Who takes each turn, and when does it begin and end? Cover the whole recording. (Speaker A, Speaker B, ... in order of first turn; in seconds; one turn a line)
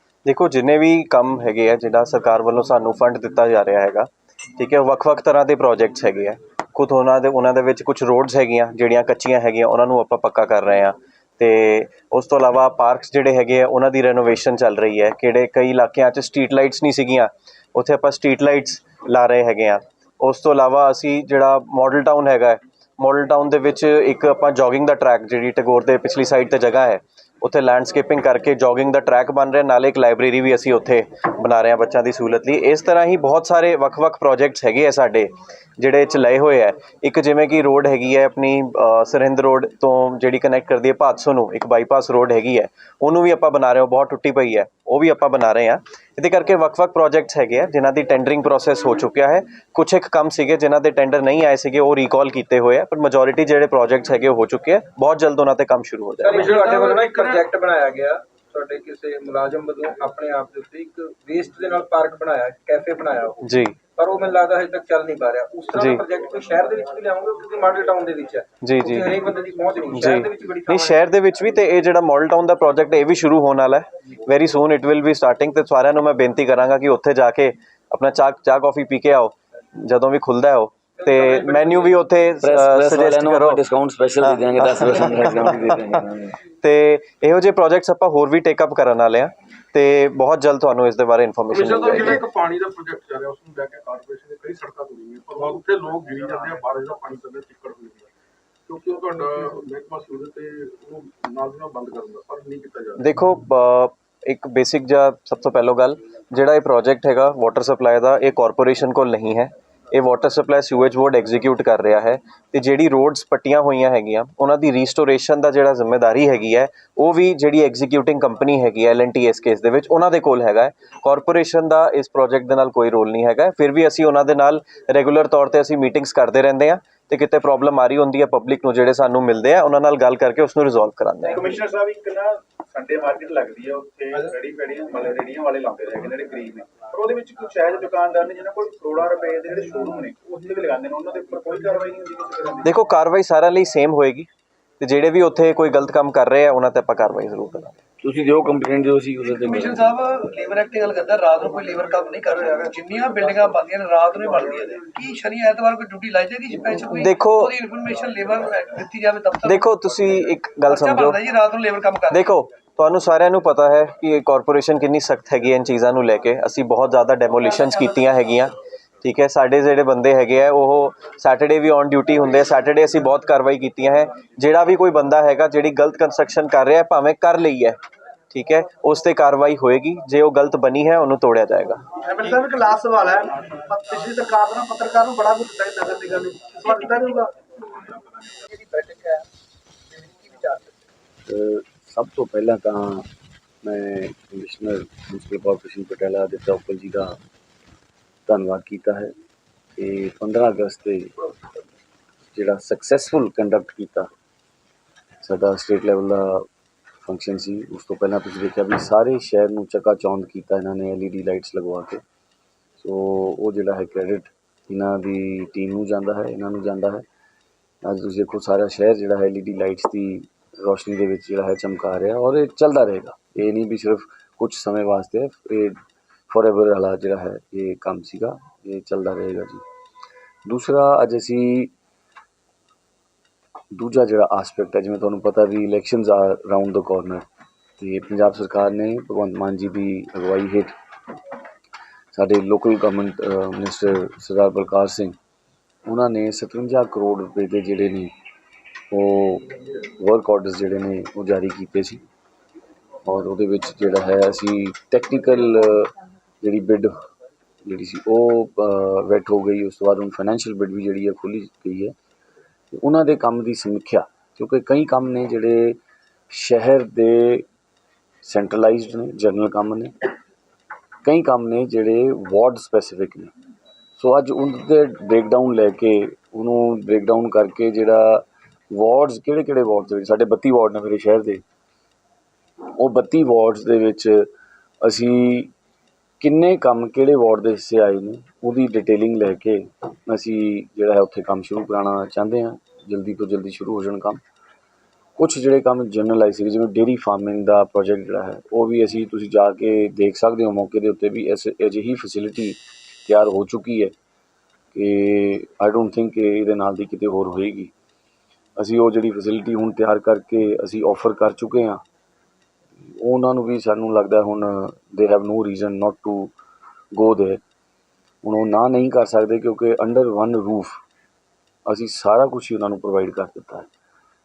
Speaker A: 0.2-56.5
Speaker B: 56.2-71.0
Speaker C: 56.3-57.4
Speaker A: 63.4-63.8
Speaker A: 65.7-66.0
Speaker A: 68.6-69.2
Speaker A: 69.9-83.6
Speaker B: 81.0-82.0
Speaker D: 82.4-86.4
Speaker A: 84.2-85.9
Speaker A: 86.6-92.2
Speaker C: 91.5-98.1
Speaker C: 98.7-103.0
Speaker A: 103.0-131.5
Speaker E: 131.2-142.6
Speaker A: 142.6-144.3
Speaker A: 144.8-147.8
Speaker D: 148.0-149.8
Speaker F: 149.2-159.7
Speaker A: 156.7-157.6
Speaker A: 159.4-161.2
Speaker F: 160.7-162.2
Speaker A: 162.1-177.8
Speaker F: 167.6-167.8
Speaker A: 178.3-181.8
Speaker G: 182.0-187.3
Speaker B: 188.5-189.2
Speaker B: 189.9-190.8
Speaker D: 191.3-193.1
Speaker D: 193.6-197.2
Speaker D: 198.3-199.1
Speaker D: 199.8-201.1
Speaker D: 202.3-204.1
Speaker D: 205.2-206.5
Speaker D: 207.0-212.0
Speaker D: 212.8-217.0
Speaker D: 217.8-225.8
Speaker D: 226.3-229.6
Speaker D: 230.4-231.7
Speaker D: 233.7-237.2
Speaker D: 237.8-240.7
Speaker D: 242.1-245.2
Speaker D: 245.8-248.1
Speaker D: 248.9-252.0
Speaker D: 253.0-256.9
Speaker D: 257.6-261.9
Speaker D: 262.7-265.8
Speaker D: 266.3-267.4
Speaker D: 268.2-269.9
Speaker D: 271.0-273.3
Speaker D: 274.0-281.4
Speaker D: 282.7-284.3
Speaker D: 284.8-285.5
Speaker D: 286.2-294.2
Speaker D: 295.2-303.9
Speaker D: 304.7-307.7
Speaker D: 308.6-311.8
Speaker D: 312.9-316.3
Speaker D: 316.9-317.4
Speaker D: 318.2-320.8
Speaker D: 321.7-323.7